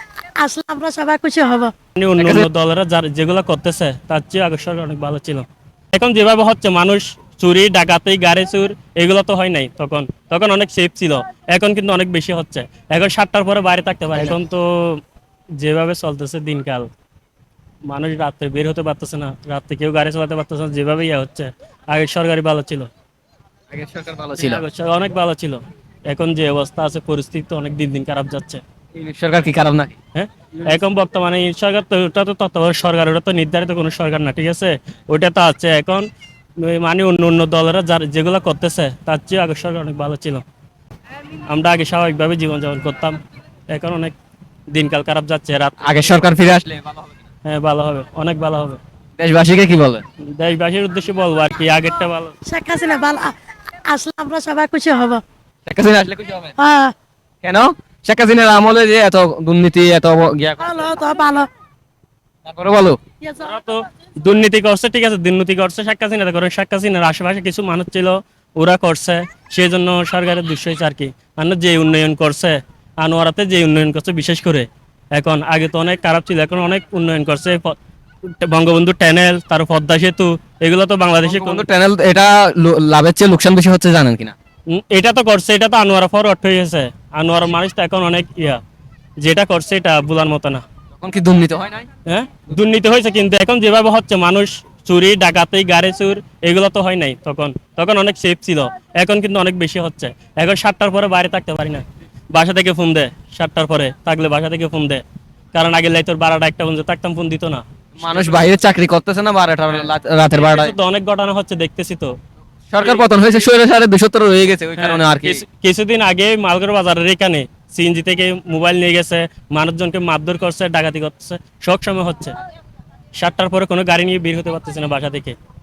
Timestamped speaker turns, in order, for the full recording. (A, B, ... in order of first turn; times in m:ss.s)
0:00.4-0:01.7 A
0:02.0-0:15.0 B
0:02.2-0:02.5 C
0:15.6-0:16.9 B
0:17.9-0:22.9 B
0:23.7-0:24.6 C
0:24.4-0:28.6 B
0:28.9-0:30.0 C
0:30.1-0:36.1 B
0:36.6-0:40.4 B
0:41.5-0:44.1 B
0:44.7-0:46.2 B
0:45.8-0:47.1 C
0:47.4-0:48.8 B
0:49.2-0:50.0 C
0:50.4-0:52.3 B
0:52.4-0:53.3 A
0:53.8-0:55.2 A
0:55.6-0:56.5 C
0:56.6-0:56.9 A
0:57.4-1:01.0 C
1:00.6-1:01.5 A
1:02.4-1:03.0 C
1:03.2-1:03.6 A
1:03.4-1:17.8 B
1:18.4-1:21.7 B
1:21.2-1:24.3 C
1:24.7-1:28.6 B
1:29.2-1:30.6 B
1:31.0-1:31.9 C
1:32.1-1:45.0 B
1:45.5-1:48.4 B
1:48.0-1:50.7 C
1:50.4-1:52.1 B
1:52.7-1:55.4 C
1:54.8-2:02.4 B
2:03.2-2:05.4 B